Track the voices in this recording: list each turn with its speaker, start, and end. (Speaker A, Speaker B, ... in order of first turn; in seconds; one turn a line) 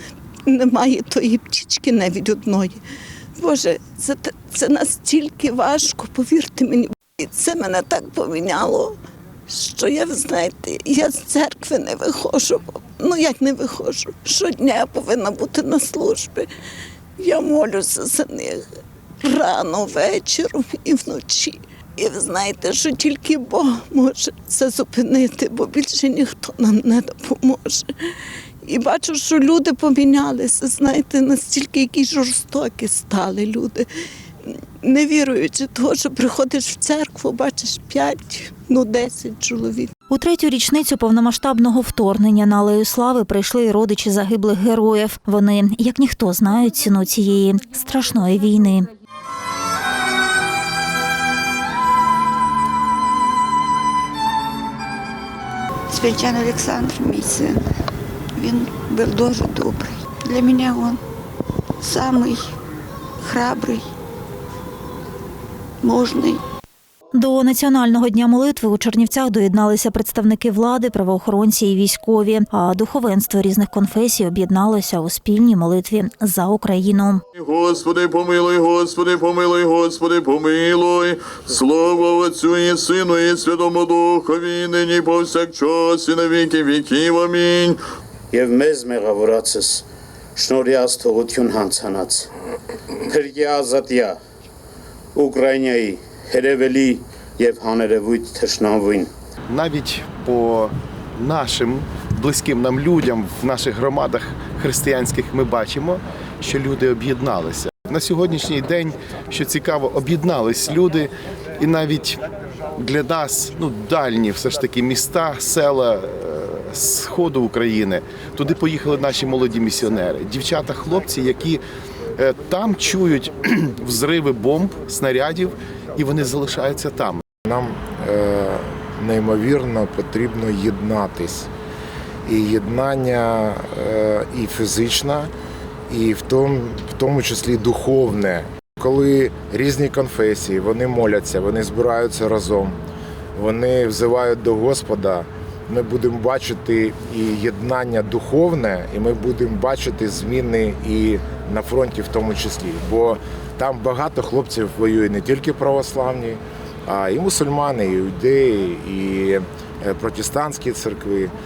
Speaker A: 0.5-2.8
Speaker A: 3.4-8.9
Speaker A: 9.5-16.5
Speaker A: 17.2-18.6
Speaker A: 19.2-27.9
Speaker A: 28.6-33.9
Speaker A: 34.4-39.9
Speaker B: 40.1-48.9
Speaker C: 55.9-57.6
Speaker C: 58.4-61.0
Speaker C: 61.8-62.4
Speaker C: 63.2-63.9
Speaker C: 65.8-66.4
Speaker B: 67.1-77.2
Speaker D: 77.3-87.8
Speaker E: 88.3-92.3
Speaker E: 93.0-94.2
Speaker E: 95.1-99.1
Speaker F: 99.5-121.6
Speaker F: 122.1-127.2
Speaker G: 127.5-131.5
Speaker G: 132.2-135.3
Speaker G: 135.9-142.8
Speaker G: 143.3-161.3